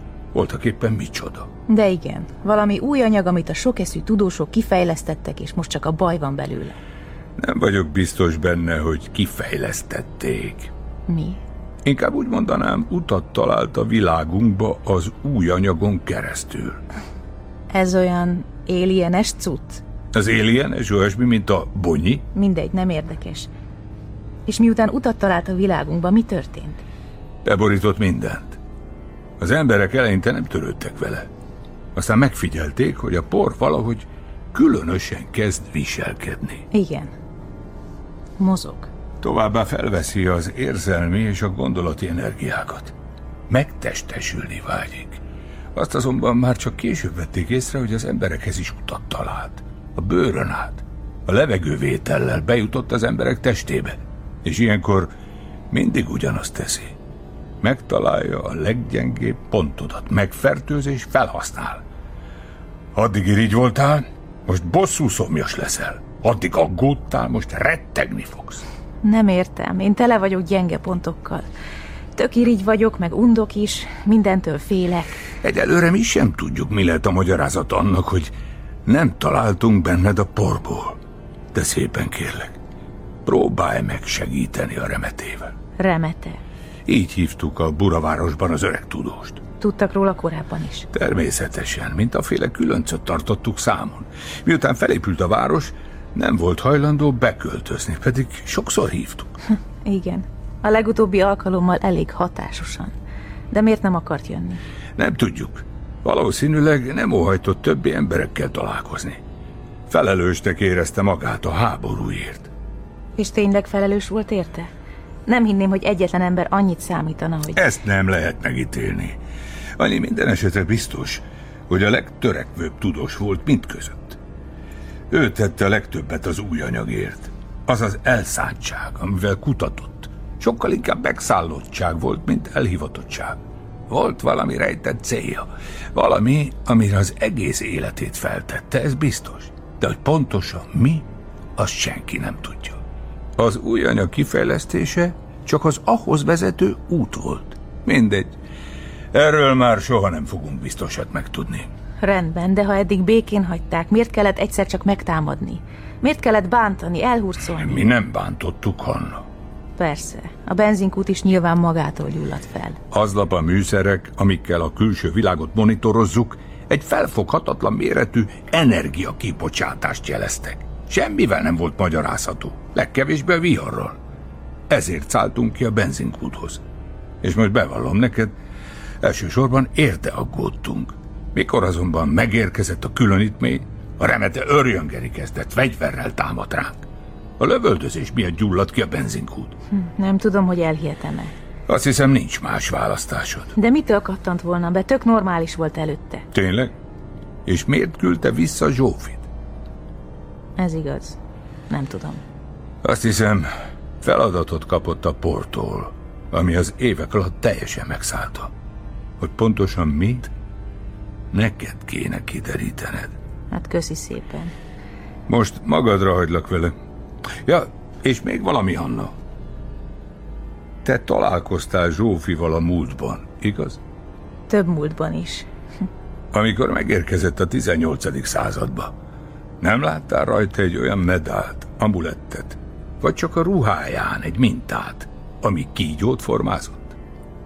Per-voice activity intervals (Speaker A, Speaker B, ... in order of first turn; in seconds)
Speaker A: 0.3-1.5, 7.4-10.7, 11.8-16.8, 20.1-22.3, 27.4-28.6, 29.4-31.3, 31.9-36.6, 39.2-42.9, 43.5-45.2, 45.8-55.1, 55.7-56.9, 57.6-61.8, 63.0-68.6, 75.4-78.3, 78.9-81.0, 81.5-82.5, 83.3-85.5, 86.9-89.4, 90.9-99.3, 105.0-109.2, 109.9-112.5, 117.5-119.2, 119.8-124.2, 125.1-141.1, 141.6-142.8, 143.4-148.3, 149.1-151.7, 157.6-159.2, 162.9-174.0, 174.7-176.6, 177.2-178.3, 179.0-186.8, 187.4-189.6, 191.7-193.5, 196.3-196.7, 197.5-199.3, 202.8-203.5, 204.0-208.5, 209.2-210.3, 211.3-213.1, 215.3-216.7, 217.5-219.1, 220.8-223.8, 226.3-228.9, 229.6-236.9
Speaker B: 1.7-6.8, 11.1-11.4, 17.7-19.8, 22.3-23.5, 24.5-26.8, 36.7-37.1, 38.4-38.9, 69.0-71.5, 72.2-75.2, 85.8-86.4, 89.6-90.9, 99.8-102.9, 103.5-104.6, 113.2-114.7, 115.3-117.6, 152.0-157.9, 159.8-162.8, 189.7-191.3, 193.6-196.3, 200.6-201.2, 201.7-202.2, 213.5-214.5, 224.5-225.5